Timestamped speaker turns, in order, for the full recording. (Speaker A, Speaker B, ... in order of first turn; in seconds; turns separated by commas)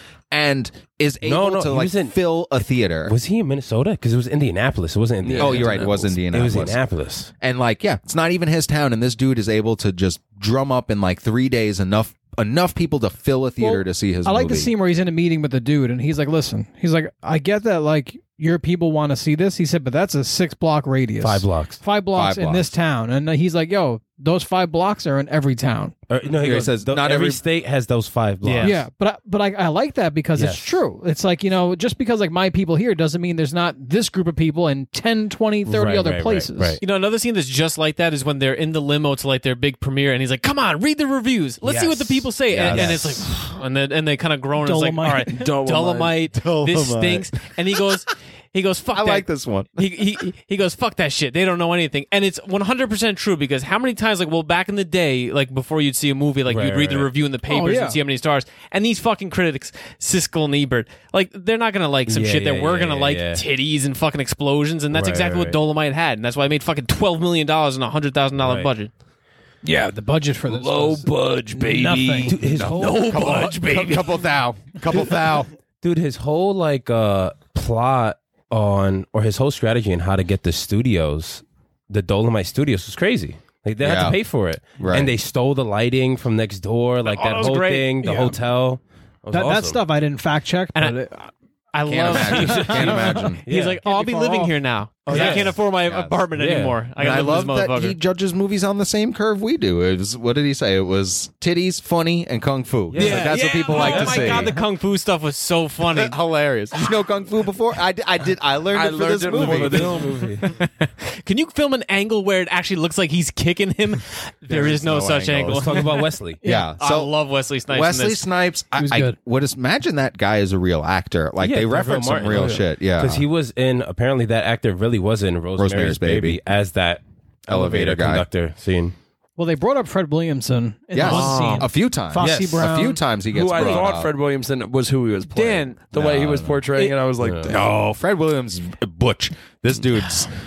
Speaker A: 0.3-3.1, Speaker B: 1.2-2.1, Speaker B: 3.1-7.3, Speaker C: 5.2-5.9, Speaker A: 5.4-6.8, Speaker A: 7.4-14.7, Speaker D: 13.6-25.9, Speaker B: 21.2-21.8, Speaker A: 22.1-22.7, Speaker B: 26.1-28.8, Speaker A: 26.4-27.4, Speaker E: 28.4-28.8, Speaker D: 28.6-36.8, Speaker B: 30.4-30.7, Speaker B: 35.6-36.8, Speaker E: 36.8-68.9, Speaker B: 41.6-43.0, Speaker A: 42.5-43.2, Speaker D: 44.6-45.5, Speaker C: 45.3-46.2, Speaker A: 46.3-47.3, Speaker A: 48.9-49.7, Speaker B: 56.5-57.1, Speaker D: 57.5-58.0, Speaker B: 62.1-63.4, Speaker B: 64.9-65.6, Speaker B: 68.4-68.7, Speaker D: 69.6-72.4, Speaker C: 70.4-74.2, Speaker B: 72.2-73.1, Speaker A: 72.5-75.5, Speaker B: 75.8-89.8, Speaker A: 83.8-84.2, Speaker A: 84.8-85.1, Speaker E: 87.0-88.0, Speaker D: 88.0-88.3, Speaker D: 89.3-91.2, Speaker E: 90.7-91.0, Speaker E: 91.7-98.0, Speaker A: 91.9-93.4, Speaker D: 92.2-93.3, Speaker B: 92.2-93.8, Speaker D: 93.8-94.5, Speaker B: 95.0-95.6, Speaker A: 95.1-96.2, Speaker B: 96.3-96.8, Speaker A: 97.0-104.5, Speaker B: 102.9-104.6, Speaker E: 103.0-106.2, Speaker A: 105.8-110.0, Speaker C: 108.7-110.1, Speaker B: 109.3-110.5, Speaker E: 110.4-116.1, Speaker A: 114.5-115.8, Speaker B: 115.5-116.4, Speaker D: 116.4-116.7, Speaker A: 116.4-117.1, Speaker E: 116.8-118.2, Speaker A: 117.7-123.2, Speaker D: 118.8-119.2, Speaker B: 121.4-128.9, Speaker A: 125.6-126.4, Speaker A: 127.5-128.2, Speaker D: 129.4-133.0, Speaker A: 130.9-134.1, Speaker E: 131.0-131.7, Speaker B: 132.2-132.7, Speaker C: 133.3-137.6, Speaker B: 133.5-133.9, Speaker E: 135.3-135.9, Speaker A: 135.9-136.6, Speaker B: 136.2-136.5, Speaker B: 137.2-137.5, Speaker A: 137.4-140.3